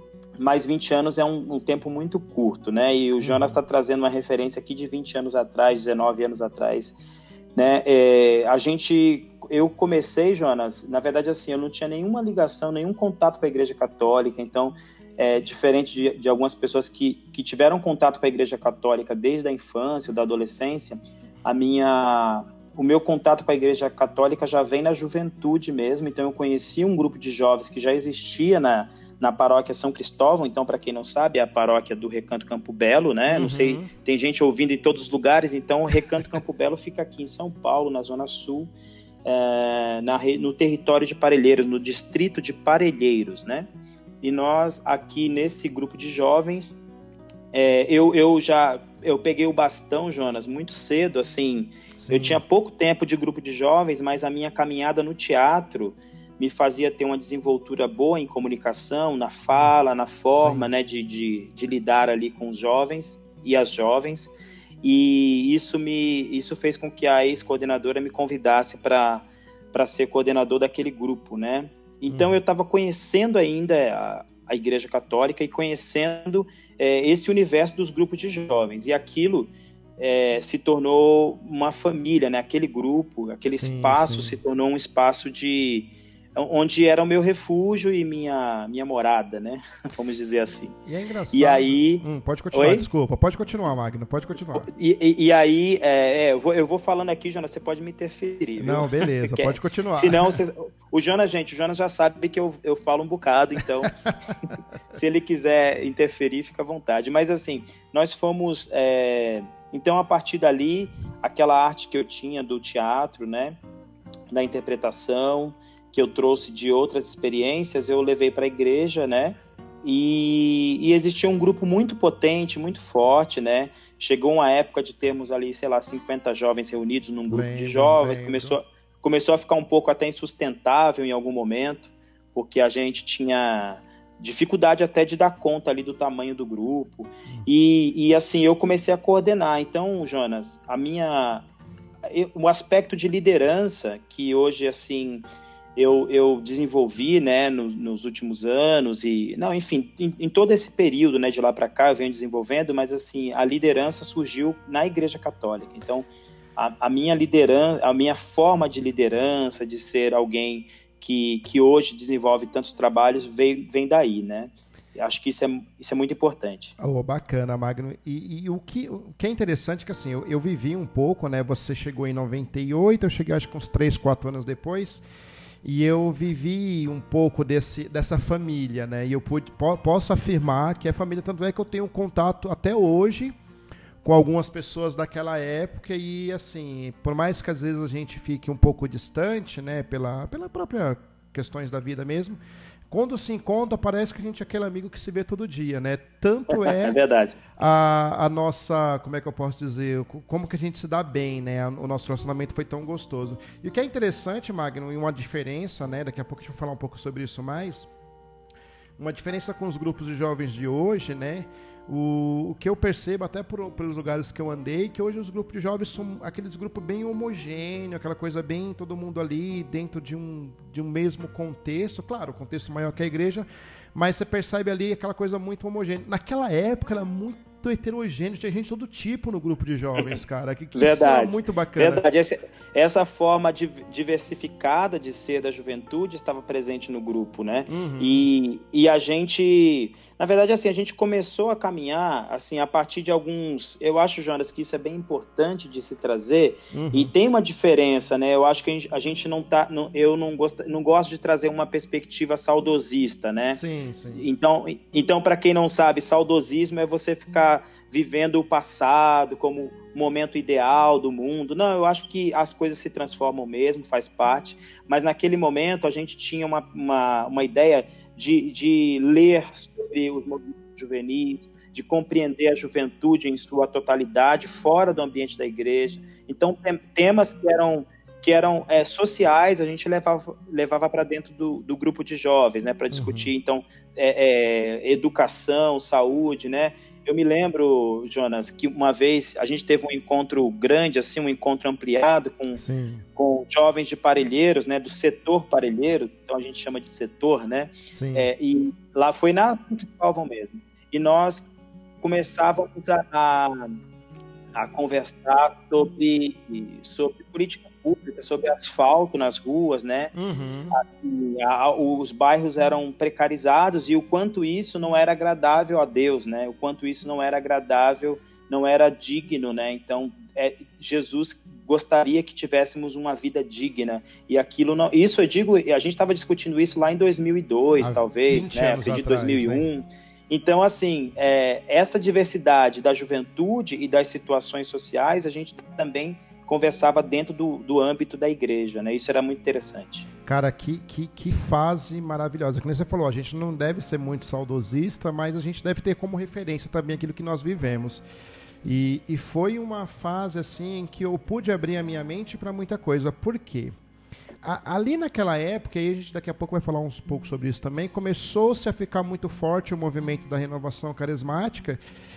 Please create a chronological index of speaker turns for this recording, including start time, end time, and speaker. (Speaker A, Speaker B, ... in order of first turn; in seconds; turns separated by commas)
Speaker A: 0.4-7.0, Speaker B: 3.2-3.5, Speaker A: 7.5-38.7, Speaker B: 33.3-33.9, Speaker A: 39.2-43.7, Speaker A: 44.2-46.8, Speaker A: 47.5-64.3, Speaker B: 52.0-52.4, Speaker B: 60.4-60.7, Speaker A: 64.8-90.7, Speaker B: 72.1-72.4, Speaker B: 83.5-84.4, Speaker B: 90.8-94.7, Speaker A: 91.3-92.8, Speaker A: 94.5-103.9, Speaker B: 98.6-100.4, Speaker A: 104.9-113.6, Speaker A: 114.3-141.4, Speaker B: 127.3-128.6, Speaker A: 142.1-145.2, Speaker A: 145.8-166.7, Speaker B: 166.8-175.0, Speaker B: 175.6-183.3, Speaker B: 184.0-197.0, Speaker A: 196.5-197.4, Speaker B: 197.6-207.9, Speaker B: 209.0-232.0, Speaker A: 230.7-253.6, Speaker B: 237.7-238.3, Speaker B: 246.7-247.1, Speaker B: 253.5-254.2, Speaker A: 254.1-292.6, Speaker B: 282.9-283.3, Speaker B: 292.6-293.0, Speaker A: 293.1-301.5, Speaker B: 297.9-298.3, Speaker A: 302.0-303.7, Speaker A: 304.5-310.1, Speaker B: 310.1-310.7, Speaker A: 310.7-340.1, Speaker B: 327.8-329.6, Speaker B: 340.2-348.0, Speaker B: 348.6-353.7, Speaker B: 354.4-361.8